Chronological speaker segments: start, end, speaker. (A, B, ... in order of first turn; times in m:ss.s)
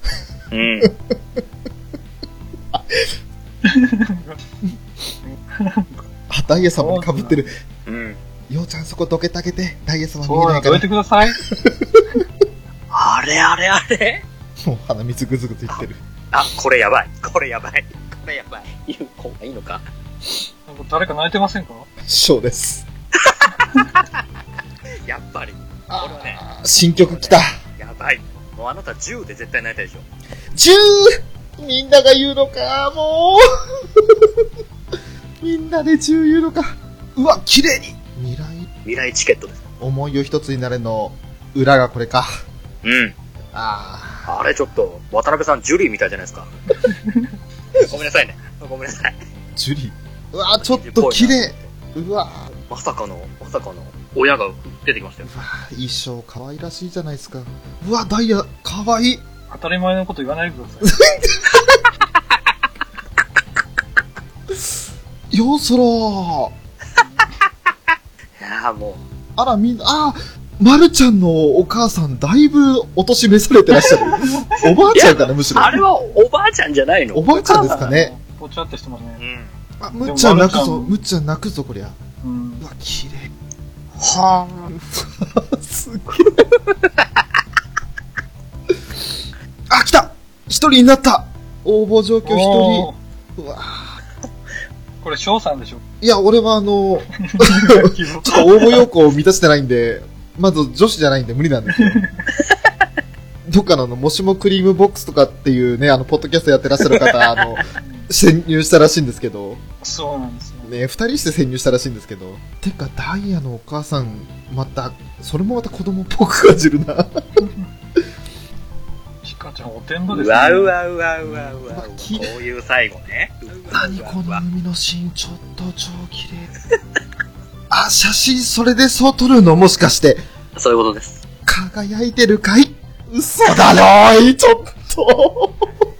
0:00.5-0:00.9 A
0:00.8-0:01.4 B
0:02.7-0:03.1 B
0:03.6-0:04.4 C
0:05.2-0:05.9 C
0:06.3-0:07.5 B
0:06.6-0:07.4 C
0:07.9-0:08.2 A
0:08.5-0:10.9 B
0:10.2-0:11.4 C
0:11.4-0:12.2 B
0:12.9-0:14.2 A
0:14.6-0:16.0 B
0:15.7-0:19.8 A
0:20.7-0:21.9 C
0:22.0-0:22.8 B
0:23.2-0:24.0 A
0:25.1-0:26.4 A
0:25.9-0:27.5 B
0:27.0-0:30.0 A
0:30.5-0:34.4 B
0:35.4-0:38.7 B
0:38.8-0:39.6 A
0:39.8-0:42.3 B
0:42.8-0:43.1 A
0:43.5-0:44.4 B
0:44.3-0:46.5 A
0:46.9-0:47.2 C
0:47.7-0:49.2 A
0:47.8-0:48.2 B
0:49.6-0:52.5 B
0:50.6-0:51.7 A
0:52.7-0:55.3 A
0:55.2-0:59.2 B
0:59.5-1:01.0 C
1:00.8-1:01.8 B
1:04.5-1:06.5 B
1:08.4-1:09.0 A
1:09.4-1:15.8 B
1:14.3-1:14.6 C
1:14.9-1:17.8 A
1:17.1-1:18.1 B
1:17.5-1:19.2 C
1:19.2-1:19.6 A
1:19.8-1:22.0 B
1:20.0-1:20.9 C
1:22.2-1:22.6 C
1:22.6-1:23.3 B
1:24.0-1:24.7 A
1:24.7-1:26.5 B
1:26.4-1:27.0 A
1:28.7-1:34.0 B
1:32.2-1:33.0 C
1:35.0-1:35.8 C
1:36.0-1:42.0 B
1:37.2-1:38.8 C
1:41.7-1:42.2 C
1:43.5-1:49.6 B
1:46.9-1:47.6 A
1:47.8-1:48.1 C
1:49.8-1:50.7 C
1:50.6-1:57.1 B
1:59.2-2:00.8 C
2:00.1-2:04.4 A
2:01.2-2:02.4 B
2:03.7-2:06.5 B
2:07.7-2:10.2 B
2:10.6-2:11.2 A
2:11.5-2:15.7 B